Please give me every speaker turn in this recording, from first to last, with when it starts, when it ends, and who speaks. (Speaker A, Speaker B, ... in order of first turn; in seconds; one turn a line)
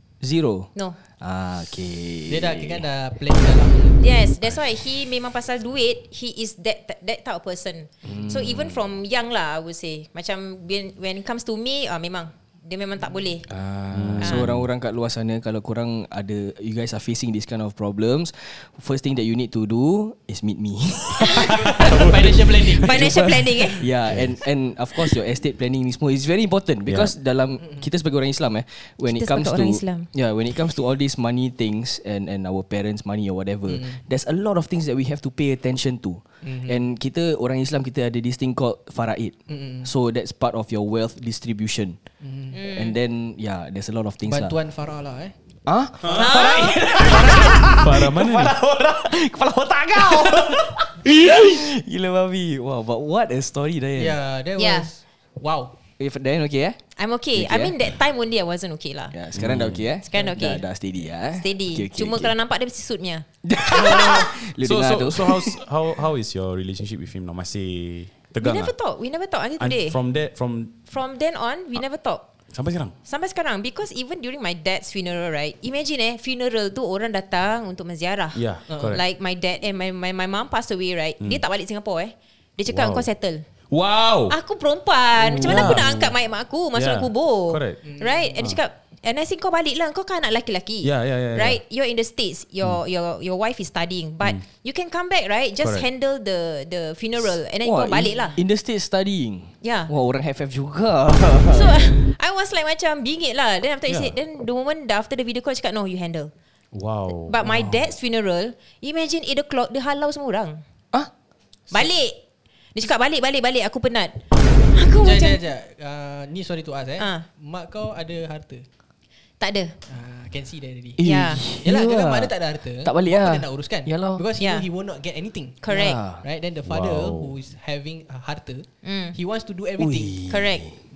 Speaker A: 0.2-2.8
Speaker B: 2.3-4.2
Speaker C: 4.0-13.5
Speaker A: 8.0-8.7
Speaker A: 13.5-42.0
Speaker D: 13.9-14.7
Speaker C: 14.2-14.5
Speaker C: 21.2-21.5
Speaker D: 21.4-23.4
Speaker B: 21.6-23.2
Speaker C: 22.7-23.8
Speaker D: 24.1-24.3
Speaker D: 26.9-27.1
Speaker C: 29.1-30.1
Speaker B: 33.7-34.0
Speaker B: 36.4-36.8
Speaker B: 39.5-39.9
Speaker B: 42.2-42.6
Speaker C: 42.5-43.0
Speaker A: 42.7-44.6
Speaker B: 44.2-45.3
Speaker A: 45.6-54.2
Speaker D: 46.0-46.5
Speaker C: 46.0-47.0
Speaker D: 47.0-48.5
Speaker B: 47.0-47.5
Speaker B: 54.0-55.7
Speaker C: 54.6-54.9
Speaker A: 56.0-56.8
Speaker C: 57.0-59.1
Speaker A: 57.4-57.7
Speaker A: 59.1-62.3
Speaker D: 59.3-59.8
Speaker C: 60.0-60.6
Speaker B: 60.1-60.6
Speaker C: 61.3-64.2
Speaker A: 63.4-65.6
Speaker D: 64.6-68.7
Speaker C: 68.4-70.0
Speaker D: 69.6-70.8
Speaker C: 70.9-72.2
Speaker D: 72.5-72.9
Speaker C: 73.0-83.4
Speaker D: 78.3-79.0
Speaker B: 78.7-79.0
Speaker D: 82.7-83.1
Speaker D: 83.7-84.3
Speaker C: 84.3-98.4
Speaker A: 85.3-85.8
Speaker D: 85.4-86.1
Speaker D: 86.7-87.8
Speaker B: 87.8-88.1
Speaker D: 90.8-91.6
Speaker D: 95.6-95.9
Speaker A: 97.6-102.0
Speaker C: 99.6-99.9
Speaker C: 101.5-106.3
Speaker B: 101.5-101.9
Speaker D: 103.9-104.1
Speaker D: 106.7-107.4
Speaker C: 107.3-110.6
Speaker A: 107.4-107.8
Speaker C: 111.7-112.2
Speaker C: 112.7-114.2
Speaker C: 114.7-115.4
Speaker B: 115.0-118.7
Speaker C: 117.0-117.2
Speaker C: 119.4-119.8
Speaker B: 119.9-121.0
Speaker A: 121.0-124.2
Speaker C: 121.0-121.4
Speaker B: 121.6-130.2
Speaker C: 124.4-124.7
Speaker C: 125.6-126.0
Speaker A: 125.7-126.2
Speaker D: 126.7-127.3
Speaker C: 128.8-129.2
Speaker A: 129.8-130.8
Speaker C: 130.3-130.7